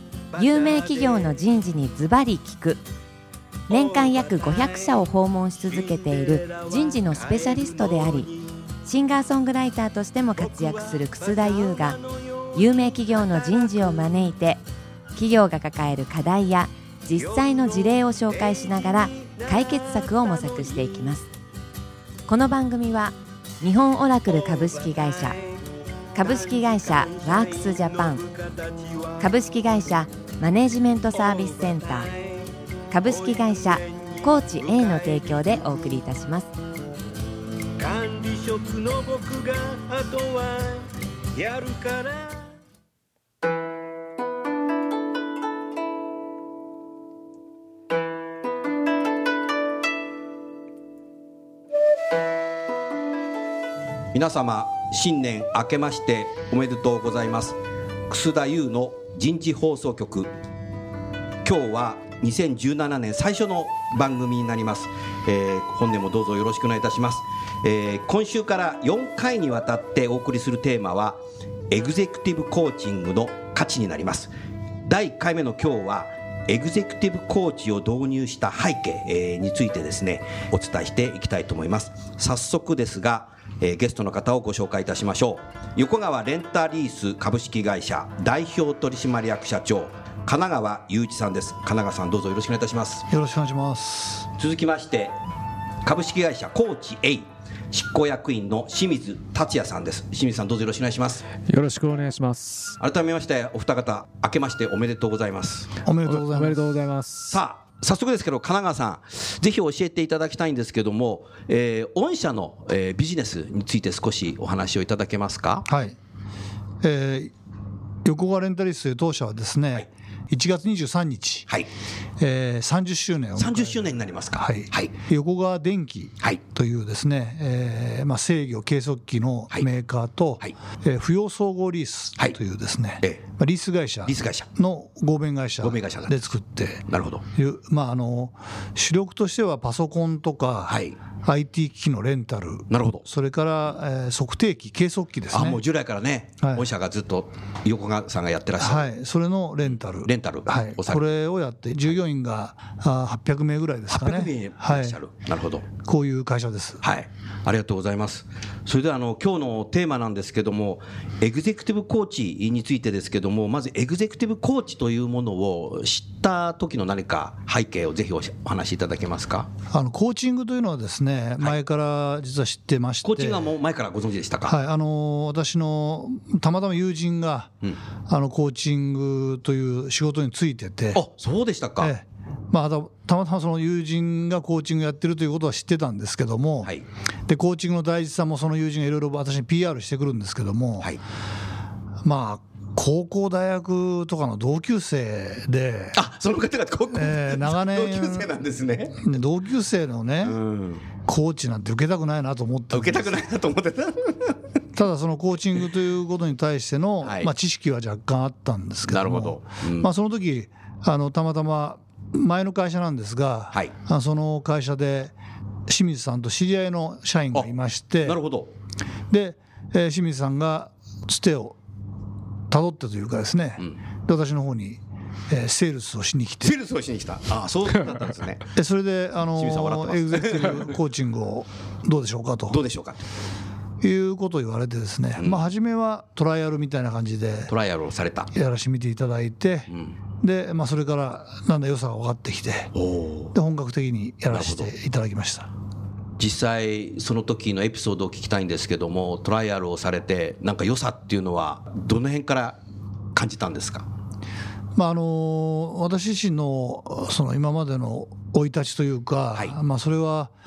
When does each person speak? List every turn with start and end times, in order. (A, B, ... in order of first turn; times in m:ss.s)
0:00.4-0:02.8 A
0:03.7-0:08.3 A
0:08.8-0:12.0 A
0:12.6-0:14.6 A
0:15.2-0:21.3 A
0:22.3-0:25.4 A
0:26.1-0:28.2 A
0:28.1-0:29.1 B
0:29.2-0:32.1 A
0:32.9-0:36.6 A
0:37.8-0:42.5 B
0:54.1-0:57.6 C
0:58.1-1:00.3 C
1:01.4-1:14.3 C
1:14.9-1:33.1 C
1:33.1-1:34.3 D
1:34.4-1:35.2 C
1:35.8-1:41.2 C
1:41.5-1:42.8 E
1:42.8-1:45.7 C
1:45.8-1:46.6 D
1:46.0-1:47.4 E
1:47.3-1:55.7 C
1:55.7-1:56.0 D
1:56.8-1:57.3 D
1:58.0-2:01.5 D
2:02.2-2:16.8 D
2:03.4-2:04.9 C
2:14.0-2:14.5 C
2:15.6-2:16.2 C
2:16.9-2:17.2 C
2:17.4-2:25.6 D
2:20.7-2:21.0 C
2:22.7-2:23.0 C
2:25.3-2:28.9 C
2:26.4-2:26.7 D
2:28.6-2:35.0 D
2:29.9-2:31.0 C
2:33.9-2:35.7 C
2:35.8-2:36.8 D
2:36.8-2:49.5 C
2:49.7-2:53.5 D
2:53.0-2:54.6 C
2:54.4-2:57.5 D
2:58.1-3:01.0 D
3:00.9-3:01.9 C
3:01.8-3:06.7 D
3:07.3-3:10.9 D
3:12.0-3:16.0 D
3:16.0-3:19.0 C
3:16.9-3:18.3 D
3:19.0-3:20.4 D
3:20.2-3:20.8 C
3:21.1-3:23.3 D
3:22.7-3:24.4 C
3:24.8-3:35.1 D
3:27.0-3:27.3 C
3:28.9-3:29.9 C
3:35.7-3:38.2 D
3:38.0-3:38.5 C
3:39.1-3:41.6 D
3:42.5-3:46.6 D
3:46.4-3:48.5 C
3:48.5-3:52.6 D
3:49.4-3:50.8 C
3:52.5-3:53.0 C
3:53.8-3:57.5 D
3:55.2-3:55.4 C
3:57.5-3:58.3 C
3:58.3-4:02.7 D
4:02.8-4:03.3 C
4:03.3-4:05.5 D
4:04.3-4:04.7 C
4:06.2-4:12.6 C
4:13.2-4:13.9 C
4:14.8-4:20.3 D